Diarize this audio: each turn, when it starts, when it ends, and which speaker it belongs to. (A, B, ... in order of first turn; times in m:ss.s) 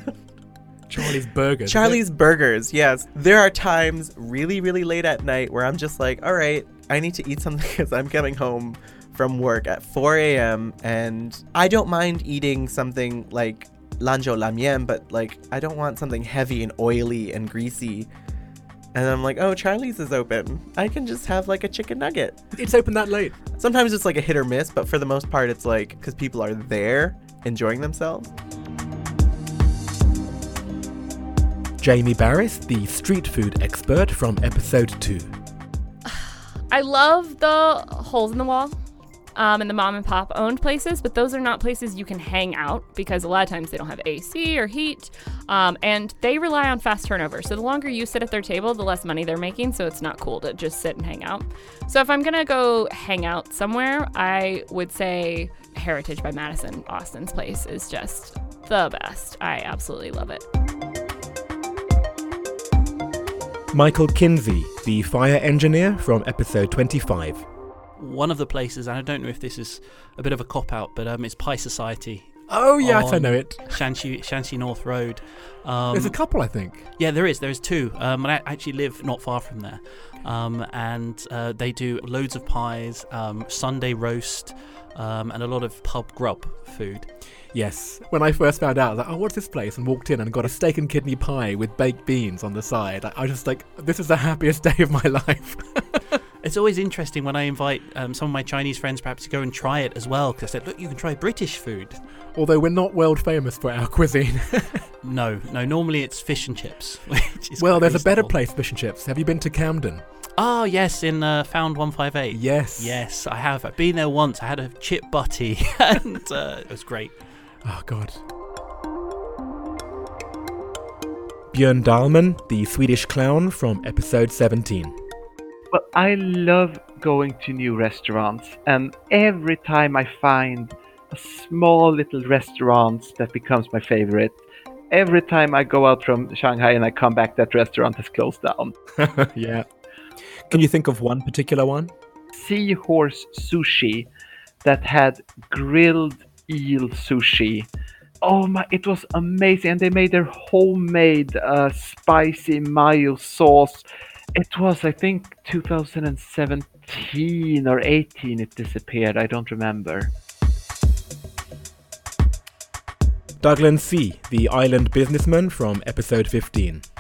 0:00.9-0:02.0 A
0:01.6-0:18.1 B
0:18.9-0:22.4 B
0:22.5-0:23.4 A
0:23.6-0:28.3 B
0:31.8-0:35.3 A
0:36.1-0:38.8 C
0:39.4-1:00.4 C
1:03.7-1:07.4 A
1:08.0-1:27.1 D
1:12.5-1:13.8 A
1:15.9-1:16.9 A
1:27.5-1:36.0 A
1:36.4-1:42.0 D
1:42.3-1:44.8 A
1:45.0-1:48.4 D
1:47.6-1:50.0 A
1:50.4-1:57.4 D
1:52.3-1:53.1 A
1:57.6-1:58.2 A
2:01.5-2:05.0 A
2:05.7-2:14.4 E
2:14.9-2:18.7 E
2:19.0-2:19.6 A
2:20.5-2:21.9 A
2:22.3-2:24.1 E
2:24.6-2:27.7 E
2:28.2-2:40.1 E
2:43.4-2:46.8 A